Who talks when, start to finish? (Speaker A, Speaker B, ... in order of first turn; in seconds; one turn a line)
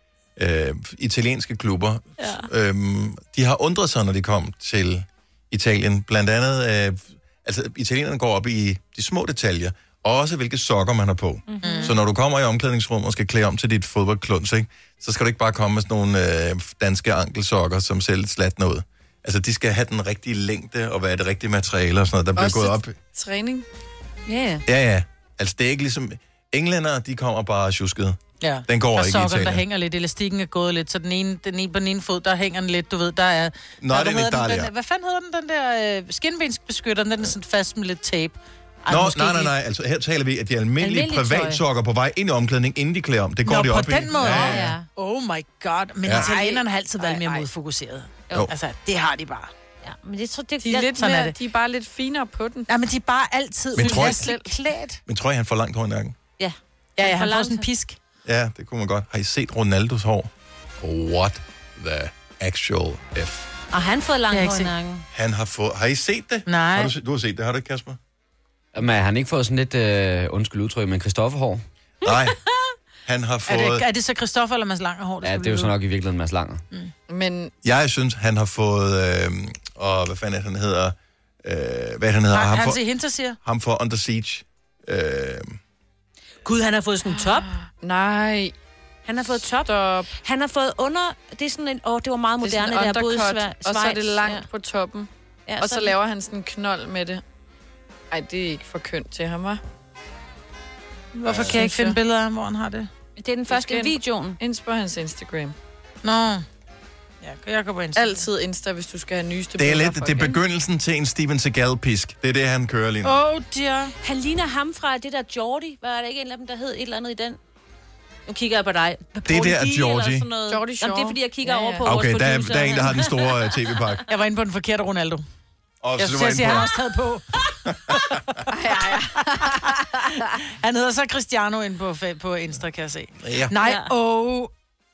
Speaker A: 0.4-22.9
Speaker B: 11.5-12.0
Speaker C: 11.6-12.0
Speaker D: 22.4-23.7
Speaker B: 24.3-24.6
Speaker A: 24.7-29.6
Speaker C: 28.4-38.4
Speaker A: 33.8-34.7
Speaker B: 38.9-39.5
Speaker A: 38.9-44.8
Speaker B: 40.8-41.6
Speaker C: 43.5-49.5
Speaker B: 44.2-44.9
Speaker A: 46.0-46.3
Speaker B: 46.1-47.5
Speaker B: 49.8-51.1
Speaker D: 50.6-52.7
Speaker C: 50.9-51.3
Speaker C: 52.7-55.0
Speaker A: 53.8-54.3
Speaker D: 53.9-54.5
Speaker A: 55.1-56.2
Speaker B: 56.4-57.7
Speaker C: 57.0-58.0
Speaker A: 58.2-63.5
Speaker B: 63.7-65.1
Speaker C: 64.3-64.7
Speaker A: 65.1-68.0
Speaker C: 66.5-66.9
Speaker E: 68.7-71.6
Speaker A: 72.0-72.4
Speaker A: 73.0-73.9
Speaker C: 73.5-75.7
Speaker E: 75.2-76.6
Speaker D: 77.1-77.5
Speaker A: 77.6-82.8
Speaker C: 82.3-83.4
Speaker A: 83.4-85.6
Speaker B: 86.4-87.5
Speaker D: 87.0-88.5
Speaker B: 89.0-94.5
Speaker D: 89.6-90.1
Speaker D: 92.4-95.1
Speaker B: 95.5-95.9
Speaker D: 95.6-97.2
Speaker D: 98.1-99.6
Speaker C: 101.2-102.9
Speaker A: 101.3-101.6
Speaker D: 101.4-102.0
Speaker B: 103.2-104.4
Speaker D: 103.5-105.5
Speaker C: 106.0-106.5
Speaker C: 107.2-108.2
Speaker D: 108.0-110.4
Speaker A: 109.6-113.2
Speaker C: 113.0-114.0
Speaker B: 114.0-117.4
Speaker B: 118.3-123.5
Speaker A: 119.3-120.3
Speaker D: 120.5-121.9
Speaker A: 121.8-124.0
Speaker C: 124.1-125.2
Speaker A: 125.8-126.7
Speaker C: 126.0-128.2
Speaker A: 127.7-128.2
Speaker D: 128.5-129.8
Speaker C: 128.8-134.5
Speaker A: 133.2-133.5
Speaker B: 133.6-133.9